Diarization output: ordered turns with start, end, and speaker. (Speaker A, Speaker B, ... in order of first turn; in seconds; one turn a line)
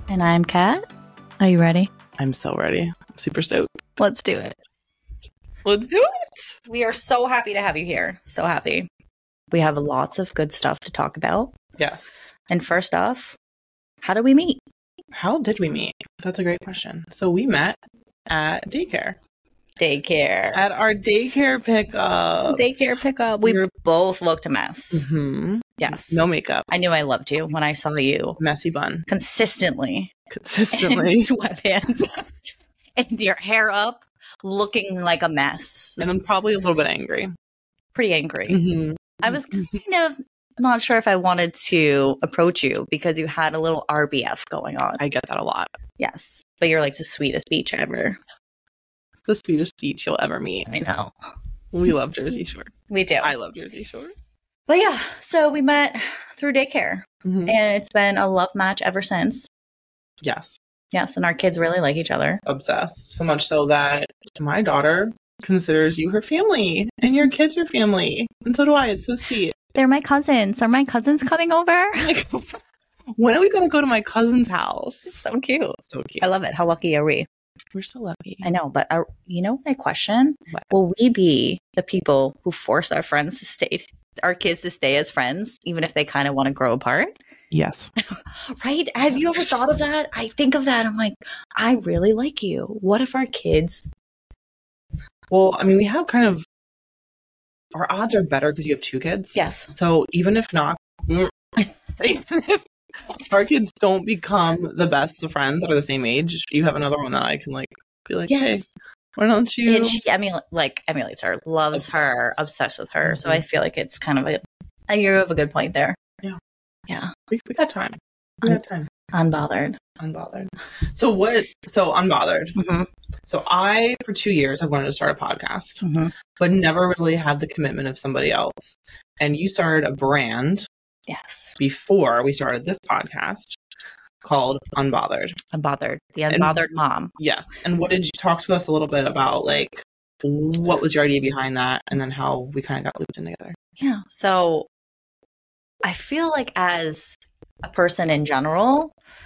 Speaker A: 0.1-0.8
Speaker A: 1.4-1.9
Speaker B: 2.2-3.7
Speaker A: 4.0-4.6
Speaker B: 5.7-6.6
Speaker A: 6.7-8.9
Speaker A: 9.5-11.5
Speaker B: 11.8-12.3
Speaker A: 12.5-13.4
Speaker A: 14.0-14.6
Speaker B: 15.2-19.2
Speaker A: 19.8-20.6
Speaker B: 20.5-22.7
Speaker A: 22.5-25.1
Speaker B: 24.9-26.7
Speaker A: 25.8-28.4
Speaker B: 28.4-29.1
Speaker A: 29.1-30.1
Speaker B: 30.3-31.3
Speaker A: 30.7-32.2
Speaker A: 33.0-36.0
Speaker B: 36.0-37.3
Speaker A: 37.9-38.6
Speaker B: 38.5-39.6
Speaker A: 39.2-45.0
Speaker B: 45.0-45.7
Speaker A: 46.0-48.2
Speaker B: 49.3-50.7
Speaker A: 50.7-51.1
Speaker B: 51.7-54.1
Speaker A: 52.9-53.3
Speaker A: 54.7-59.5
Speaker B: 57.2-57.5
Speaker B: 60.2-60.6
Speaker A: 60.9-62.4
Speaker B: 62.5-69.6
Speaker A: 69.8-72.1
Speaker B: 72.0-72.5
Speaker B: 73.2-75.2
Speaker A: 75.1-77.3
Speaker B: 75.9-76.2
Speaker B: 77.7-78.5
Speaker A: 78.4-87.1
Speaker B: 87.5-87.9
Speaker A: 88.5-93.9
Speaker B: 95.3-96.5
Speaker B: 97.7-108.7
Speaker A: 99.3-99.7
Speaker A: 108.3-108.7
Speaker B: 109.2-110.0
Speaker A: 109.7-116.0
Speaker B: 113.0-113.4
Speaker A: 116.9-117.1
Speaker B: 117.3-118.9
Speaker A: 119.1-119.8
Speaker B: 120.0-122.5
Speaker A: 122.6-122.9
Speaker B: 123.3-125.8
Speaker A: 125.8-126.1
Speaker B: 126.4-130.7
Speaker A: 131.1-131.6
Speaker B: 131.6-133.6
Speaker B: 134.2-135.3
Speaker A: 135.5-137.1
Speaker B: 136.3-136.6
Speaker B: 137.2-143.6
Speaker A: 143.8-144.7
Speaker A: 145.8-148.9